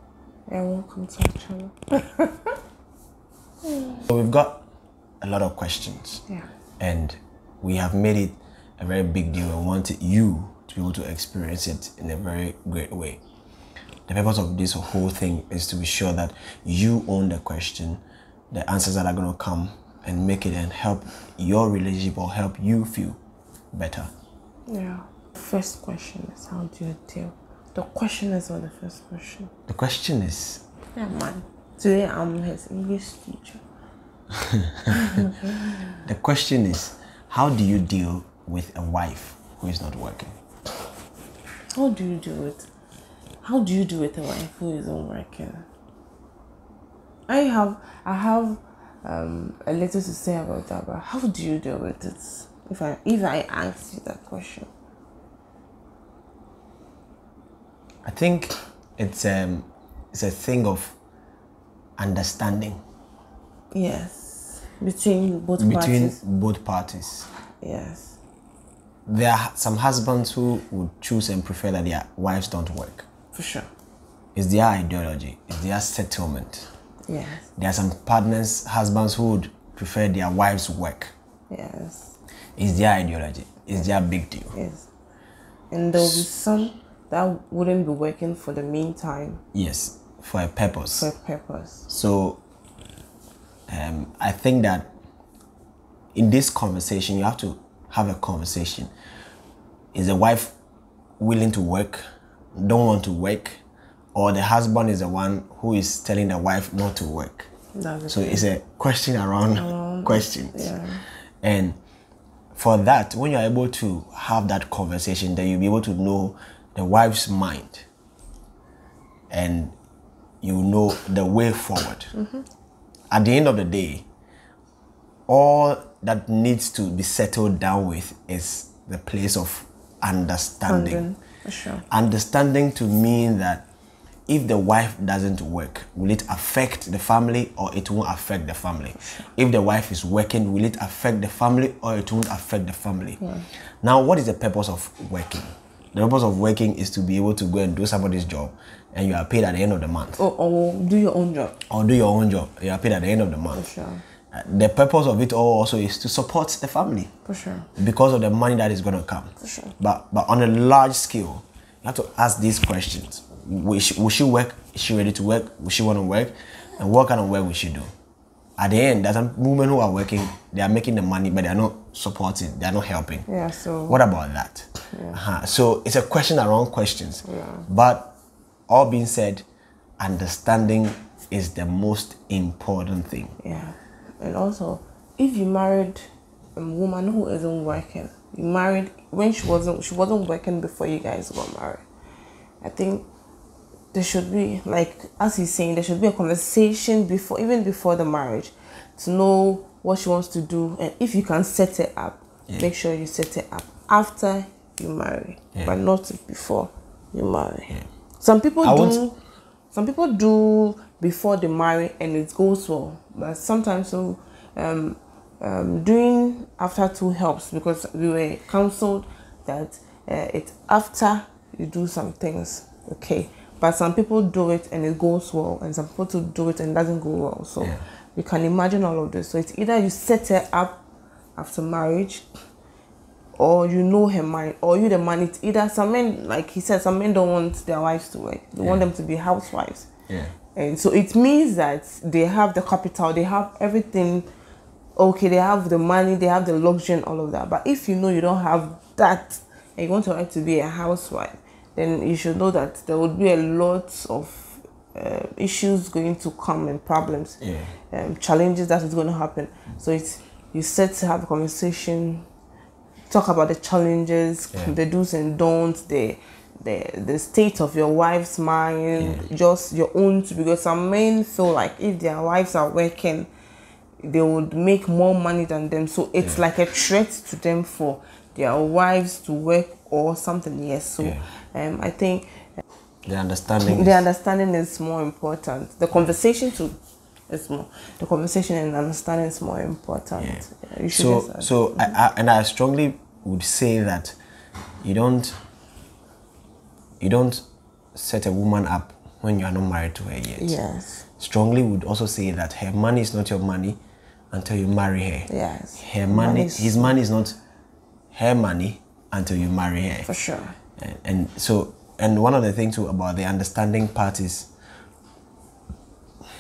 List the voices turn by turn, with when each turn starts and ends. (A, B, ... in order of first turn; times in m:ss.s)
0:00.5-0:02.5 A
0:03.7-0:03.9 A
0:04.0-0:04.6 B
0:05.2-0:06.2 B
0:06.8-0:13.2 B
0:14.1-0:23.2 B
0:23.7-0:24.1 B
0:24.7-0:29.5 A
0:29.7-0:30.6 B
0:30.9-0:33.6 A
0:34.9-0:36.0 A
0:36.0-0:40.3 B
0:41.7-0:42.7 A
0:43.4-0:45.7 A
0:47.3-0:54.7 A
0:58.0-1:00.9 B
1:02.0-1:02.8 B
1:03.7-1:06.2 A
1:05.6-1:07.3 B
1:07.6-1:08.2 A
1:09.1-1:13.1 B
1:13.3-1:13.7 A
1:14.3-1:16.7 B
1:17.1-1:17.4 A
1:17.6-1:21.1 B
1:21.5-1:22.1 A
1:22.6-1:24.5 B
1:24.5-1:24.8 A
1:25.7-1:29.4 A
1:26.0-1:26.2 B
1:29.5-1:31.1 B
1:30.9-1:31.9 A
1:31.9-1:32.4 B
1:33.7-1:34.9 B
1:36.1-1:38.9 B
1:39.9-1:40.5 B
1:41.2-1:42.0 B
1:42.5-1:43.6 B
1:44.1-1:47.5 B
1:47.7-1:48.4 A
1:48.1-1:50.7 B
1:49.5-1:51.0 A
1:51.4-1:51.8 B
1:52.5-1:57.8 B
1:59.3-1:59.7 B
2:00.4-2:02.1 B
2:02.1-2:02.4 A
2:03.1-2:04.0 B
2:05.3-2:11.0 B
2:10.6-2:11.8 A
2:11.9-2:13.6 B
2:14.3-2:23.2 B
2:23.2-2:23.5 A
2:23.8-2:30.2 B
2:30.2-2:31.6 A
2:31.7-2:33.6 B
2:33.5-2:34.0 A
2:34.3-2:37.1 B
2:37.2-2:37.7 A
2:37.8-2:47.9 B
2:39.4-2:39.7 A
2:48.6-2:53.2 B
2:53.3-2:54.0 A
2:53.9-2:58.1 B
2:54.9-2:55.2 A
2:57.2-2:57.6 A
2:58.7-2:59.4 B
3:00.0-3:03.3 B
3:03.4-3:11.8 A
3:12.6-3:13.1 A
3:13.9-3:29.2 A
3:28.6-3:29.0 B
3:29.7-3:50.8 A
3:51.4-3:52.3 A
3:53.4-3:59.9 A
4:00.1-4:00.3 B
4:00.5-4:04.3 A
4:05.0-4:17.4 A
4:17.4-4:17.7 B
4:17.9-4:22.2 A
4:23.1-4:33.3 A
4:29.0-4:29.2 B
4:34.0-4:42.3 A
4:43.0-4:44.0 B
4:43.6-4:46.8 A
4:47.3-4:51.9 A
4:50.2-4:54.2 B
4:54.8-4:55.4 B
4:57.0-4:57.4 B
4:57.9-5:00.6 B
5:00.4-5:01.0 A
5:01.2-5:03.8 B
5:04.3-5:07.4 B
5:05.3-5:06.9 A
5:08.1-5:10.1 B
5:10.0-5:10.6 A
5:10.8-5:14.5 B